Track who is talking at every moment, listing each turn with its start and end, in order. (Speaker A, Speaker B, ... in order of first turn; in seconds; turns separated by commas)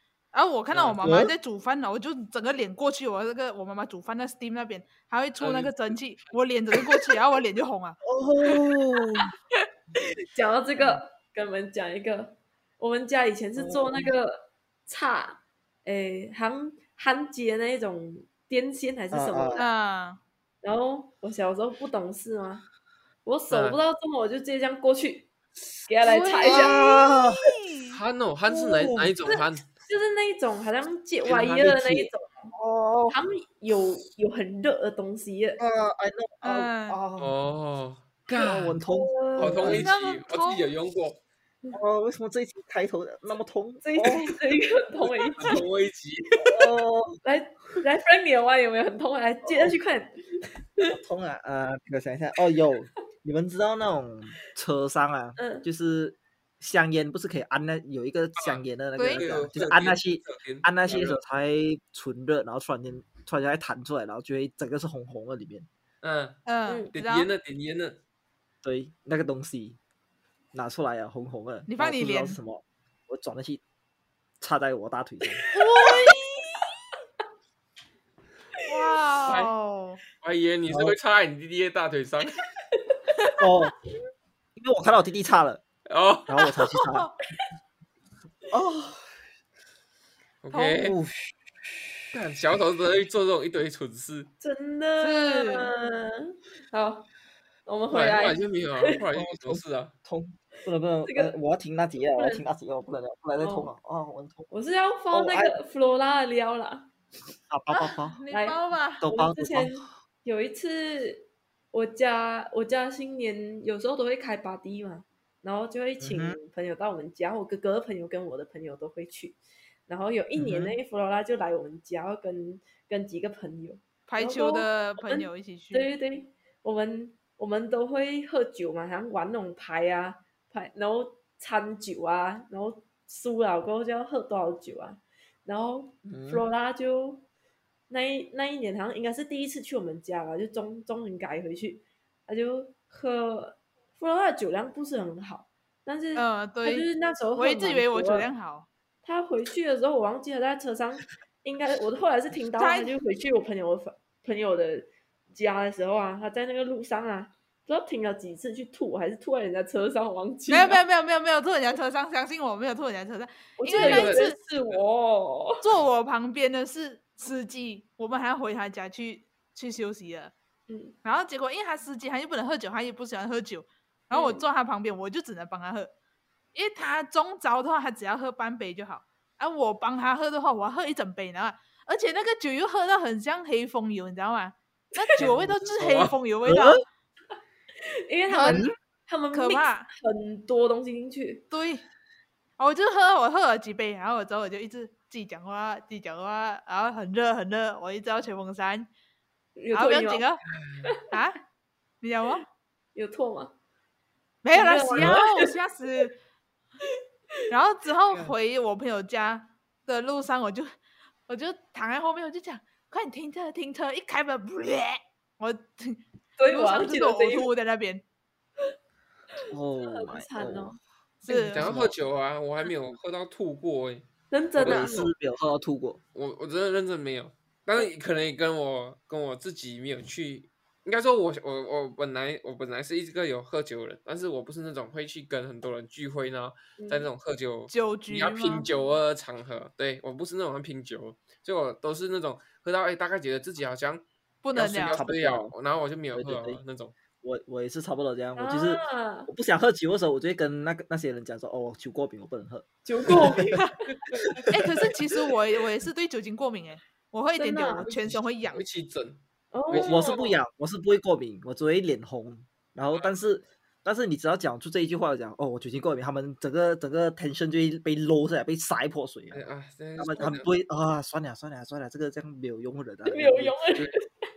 Speaker A: 0.3-8.0, Speaker B: 0.7-1.0, Speaker C: 1.0-1.3, Speaker B: 5.4-6.0, Speaker C: 8.0-9.3, Speaker D: 10.3-19.7, Speaker C: 13.6-14.1, Speaker C: 19.1-19.7, Speaker A: 19.6-20.2, Speaker D: 20.6-22.6, Speaker D: 23.2-25.3, Speaker B: 23.5-23.8, Speaker D: 25.9-26.9, Speaker A: 26.0-28.0, Speaker C: 26.4-27.5, Speaker B: 27.9-29.6, Speaker C: 28.5-29.1, Speaker D: 29.2-32.5, Speaker B: 31.3-31.7, Speaker C: 31.4-33.2, Speaker D: 33.1-35.6, Speaker C: 35.6-37.3, Speaker A: 36.4-37.0, Speaker B: 37.2-38.8, Speaker C: 38.3-39.9, Speaker D: 38.9-39.7, Speaker B: 39.4-41.2, Speaker A: 39.6-40.7, Speaker C: 41.7-44.3, Speaker D: 43.8-45.6, Speaker B: 45.4-46.5, Speaker C: 46.4-47.2, Speaker D: 47.2-50.9, Speaker C: 49.5-49.7, Speaker C: 50.9-65.7, Speaker D: 55.4-55.6, Speaker B: 58.4-61.2, Speaker A: 59.0-59.2, Speaker B: 66.0-66.4, Speaker A: 66.5-67.3, Speaker D: 66.7-66.9, Speaker B: 66.9-68.0, Speaker C: 68.6-69.8, Speaker C: 70.5-73.6, Speaker A: 71.7-72.4, Speaker C: 74.4-75.4, Speaker D: 75.4-76.2, Speaker A: 75.5-76.5, Speaker A: 78.7-80.0, Speaker B: 79.2-79.5, Speaker B: 80.2-82.4, Speaker C: 80.7-81.0, Speaker D: 82.8-83.3, Speaker C: 83.4-83.7, Speaker C: 84.5-85.6, Speaker B: 85.9-86.5, Speaker C: 86.3-87.1, Speaker C: 88.5-89.0, Speaker B: 90.4-91.0, Speaker A: 90.5-90.8, Speaker C: 90.8-91.2, Speaker B: 92.1-94.3, Speaker D: 94.4-97.1, Speaker A: 95.0-95.7, Speaker D: 97.7-98.9, Speaker B: 97.9-99.9, Speaker C: 99.1-104.5, Speaker D: 101.0-101.3, Speaker D: 102.0-102.4, Speaker D: 103.4-103.7, Speaker D: 104.5-106.9, Speaker C: 105.1-105.5, Speaker C: 107.5-108.2, Speaker A: 107.7-109.0, Speaker D: 108.3-137.2, Speaker C: 109.0-109.9, Speaker C: 116.0-116.4, Speaker C: 120.3-120.8, Speaker A: 124.1-125.9, Speaker C: 136.1-136.4, Speaker D: 137.9-148.3, Speaker A: 146.1-148.7, Speaker D: 149.0-160.8, Speaker A: 152.6-152.9, Speaker A: 160.5-164.3, Speaker D: 163.6-165.6, Speaker B: 163.8-164.8, Speaker A: 165.6-170.3, Speaker D: 170.7-170.9, Speaker A: 171.0-175.9, Speaker D: 174.1-174.4, Speaker A: 176.5-186.8, Speaker B: 185.2-186.2, Speaker C: 186.4-186.8, Speaker D: 187.8-191.4, Speaker A: 188.3-188.7, Speaker C: 188.4-188.7, Speaker A: 189.3-189.9, Speaker A: 191.5-191.8, Speaker A: 192.6-198.9, Speaker D: 199.6-200.2, Speaker A: 199.7-200.4, Speaker B: 200.6-200.9, Speaker D: 200.8-201.1, Speaker A: 201.1-201.4, Speaker A: 202.0-202.4, Speaker D: 202.9-203.5, Speaker A: 204.4-206.2, Speaker D: 204.5-205.5, Speaker A: 207.5-210.7, Speaker A: 211.3-218.0, Speaker D: 216.4-217.5, Speaker C: 219.5-220.7, Speaker D: 219.8-220.8, Speaker A: 221.2-221.7, Speaker B: 221.3-224.1, Speaker C: 221.5-222.0, Speaker D: 224.3-225.1, Speaker C: 224.6-226.0, Speaker B: 224.6-225.1, Speaker B: 226.1-246.9, Speaker D: 236.8-237.1, Speaker A: 237.7-238.7, Speaker A: 244.4-245.0, Speaker C: 244.6-245.5, Speaker C: 246.1-246.6, Speaker C: 247.2-253.6, Speaker D: 248.4-249.3, Speaker D: 252.8-253.8, Speaker B: 254.1-254.5, Speaker C: 254.2-254.9, Speaker A: 254.5-258.6, Speaker D: 257.4-257.9, Speaker B: 258.4-260.0, Speaker D: 259.5-260.4, Speaker C: 259.7-269.4, Speaker B: 269.3-270.5, Speaker C: 270.0-273.6, Speaker D: 273.0-274.1